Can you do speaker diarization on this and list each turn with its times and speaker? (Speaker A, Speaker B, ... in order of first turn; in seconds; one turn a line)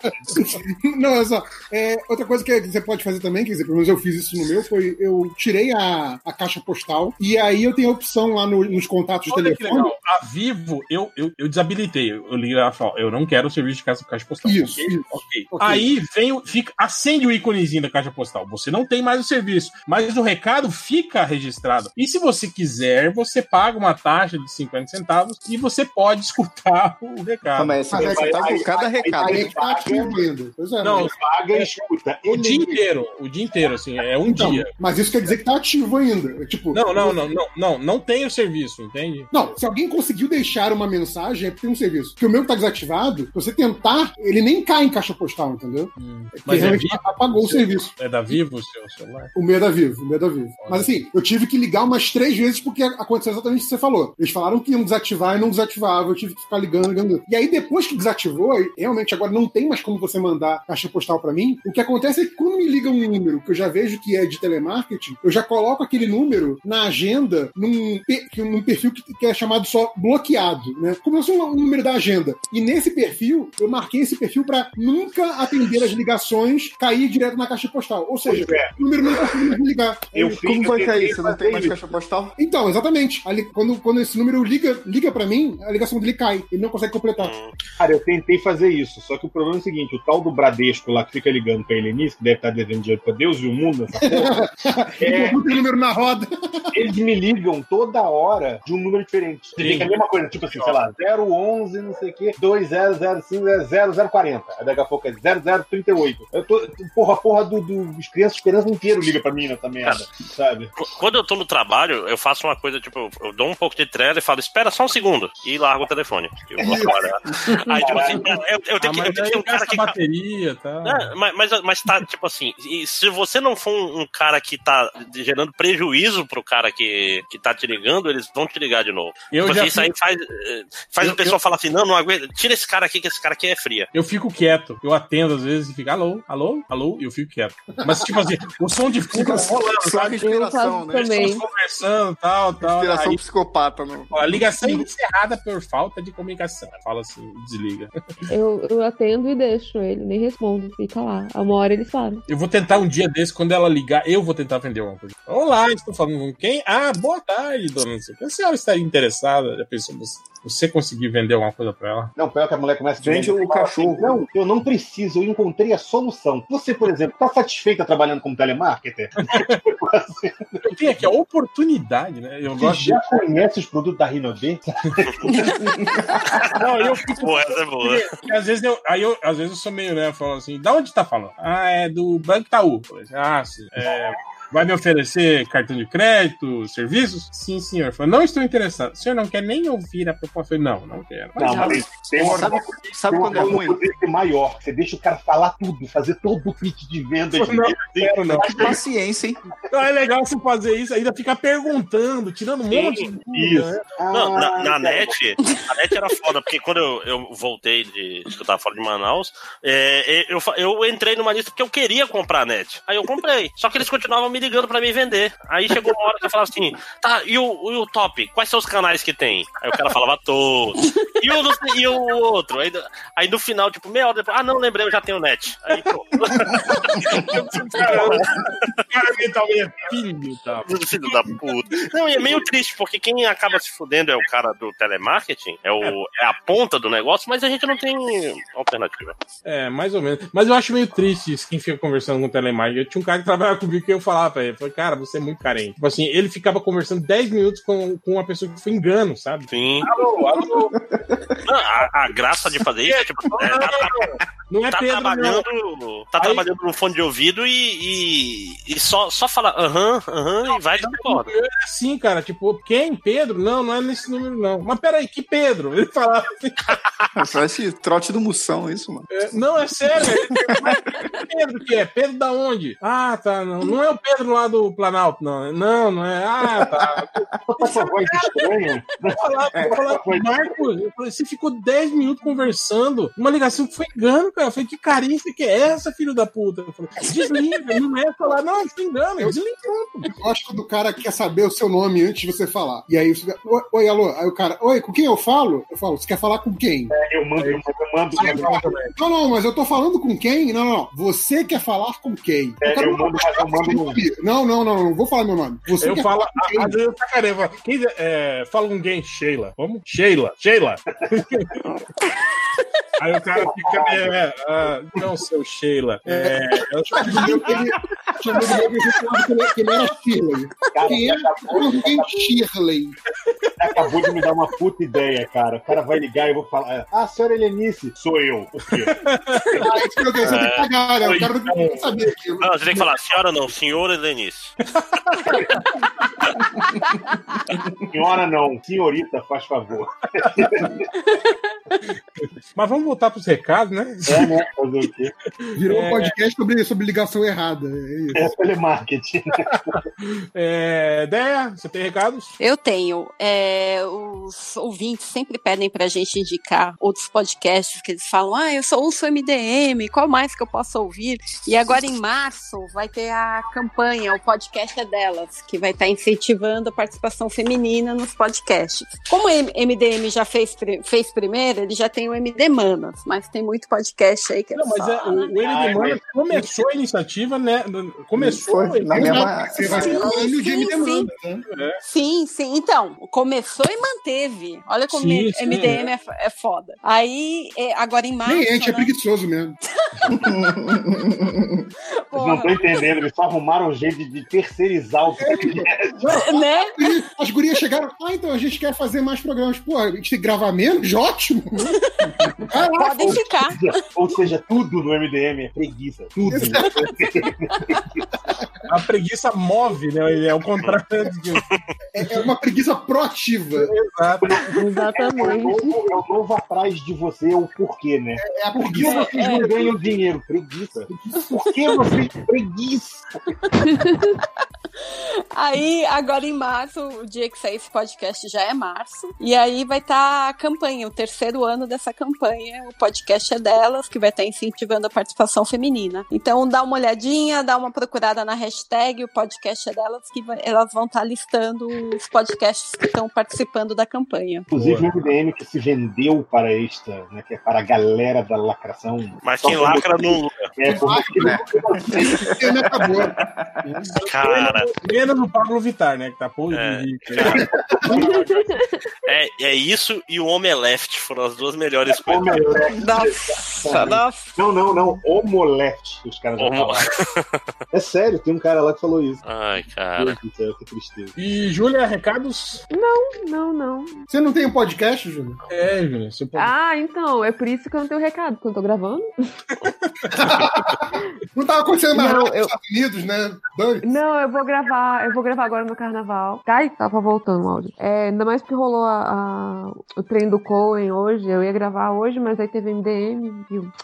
Speaker A: 0.3-9.9
Speaker B: 9.3-28.4
Speaker A: 14.4-15.9
Speaker C: 27.6-29.5
Speaker D: 27.9-30.2
Speaker A: 28.0-28.4
Speaker A: 29.2-31.1
Speaker B: 30.8-31.7
Speaker D: 31.0-32.8
Speaker B: 32.2-34.7
Speaker A: 34.3-37.2
Speaker B: 36.7-39.3
Speaker A: 39.3-48.0
Speaker B: 46.0-49.3
Speaker A: 49.3-80.2
Speaker B: 50.6-51.0
Speaker D: 78.3-78.8
Speaker D: 80.1-81.8
Speaker C: 80.2-82.3
Speaker A: 82.4-87.3
Speaker E: 87.2-87.5
Speaker D: 87.8-94.4
Speaker A: 94.0-96.7
Speaker D: 95.0-95.4
Speaker D: 96.7-110.7
Speaker B: 99.6-99.9
Speaker E: 110.8-120.0
Speaker D: 116.6-117.0
Speaker A: 116.6-116.9
Speaker D: 117.7-118.4
Speaker B: 118.8-121.1
Speaker E: 120.8-133.9
Speaker B: 129.3-129.9
Speaker B: 131.0-131.4
Speaker B: 133.9-140.2
Speaker C: 139.2-141.2
Speaker F: 140.1-141.4
Speaker B: 141.0-143.2
Speaker C: 142.6-144.9
Speaker B: 144.1-147.9
Speaker F: 148.3-152.2
Speaker B: 152.3-162.1
Speaker D: 162.2-171.1
Speaker C: 163.0-164.3
Speaker B: 169.2-169.6
Speaker B: 170.6-173.1
Speaker D: 172.6-175.6
Speaker C: 175.7-176.1
Speaker E: 176.3-176.6
Speaker B: 176.5-192.5
Speaker E: 177.1-178.1
Speaker D: 191.4-198.8
Speaker C: 191.5-193.8
Speaker B: 197.3-198.8
Speaker C: 198.4-199.4
Speaker B: 199.7-203.8
Speaker E: 202.7-203.1
Speaker D: 202.8-205.2
Speaker E: 204.1-228.8
Speaker B: 226.7-231.8
Speaker E: 230.7-239.2
Speaker B: 239.4-250.8
Speaker E: 249.5-249.9
Speaker C: 250.4-251.4
Speaker E: 251.5-254.2
Speaker B: 252.8-255.5
Speaker E: 254.7-261.3
Speaker B: 256.2-256.5
Speaker B: 260.5-266.8
Speaker C: 267.1-269.2
Speaker B: 269.1-277.3
Speaker C: 276.6-277.0
Speaker D: 277.5-280.4
Speaker B: 279.1-290.1
Speaker A: 290.1-296.9
Speaker D: 296.9-298.5
Speaker B: 297.4-298.9
Speaker A: 298.2-306.8
Speaker D: 302.6-304.0
Speaker B: 305.8-311.5
Speaker B: 313.0-317.6
Speaker D: 313.4-314.1
Speaker A: 316.9-323.0
Speaker D: 320.7-322.2
Speaker D: 323.6-329.1
Speaker B: 328.9-329.7
Speaker A: 329.6-332.9
Speaker E: 330.2-331.2
Speaker B: 331.0-331.8
Speaker E: 332.4-334.6
Speaker B: 334.8-336.0
Speaker D: 335.3-335.6
Speaker D: 337.9-340.9
Speaker B: 342.6-344.3
Speaker D: 344.1-345.1
Speaker B: 345.5-346.1
Speaker A: 345.6-348.3
Speaker D: 348.1-349.8
Speaker B: 349.5-352.4
Speaker G: 352.4-375.3
Speaker B: 374.6-379.3
Speaker D: 375.4-376.0
Speaker C: 378.2-380.0
Speaker A: 378.9-381.4
Speaker G: 379.6-381.1
Speaker B: 381.5-381.8
Speaker G: 381.8-388.9
Speaker B: 384.9-385.9
Speaker A: 388.2-389.6
Speaker C: 390.1-391.4
Speaker G: 392.1-392.9
Speaker D: 392.1-396.1
Speaker A: 395.2-401.8
Speaker G: 396.1-396.9
Speaker A: 402.4-403.2
Speaker G: 402.8-403.7
Speaker D: 403.0-408.0
Speaker A: 406.3-407.0
Speaker B: 408.7-411.5
Speaker A: 411.9-413.7
Speaker B: 413.6-414.5
Speaker D: 414.2-423.1
Speaker F: 414.4-415.8
Speaker A: 418.2-419.8
Speaker G: 418.8-419.5
Speaker F: 423.7-424.2
Speaker G: 425.3-444.5
Speaker D: 444.5-452.3
Speaker B: 444.5-445.1
Speaker E: 449.2-450.5
Speaker A: 450.7-453.9
Speaker C: 451.2-453.6
Speaker B: 453.9-458.4
Speaker E: 454.0-454.7
Speaker E: 456.5-457.5
Speaker D: 457.4-458.4
Speaker F: 457.9-458.7
Speaker E: 459.1-462.6
Speaker D: 461.9-466.9
Speaker G: 462.7-464.3
Speaker E: 466.4-467.3
Speaker D: 467.7-469.2
Speaker E: 469.2-470.2
Speaker D: 470.0-471.1
Speaker B: 471.2-472.6
Speaker F: 472.7-474.0
Speaker A: 474.1-475.4
Speaker B: 475.5-476.5
Speaker F: 476.4-479.1
Speaker A: 480.1-483.9
Speaker F: 481.9-482.6
Speaker F: 483.8-493.7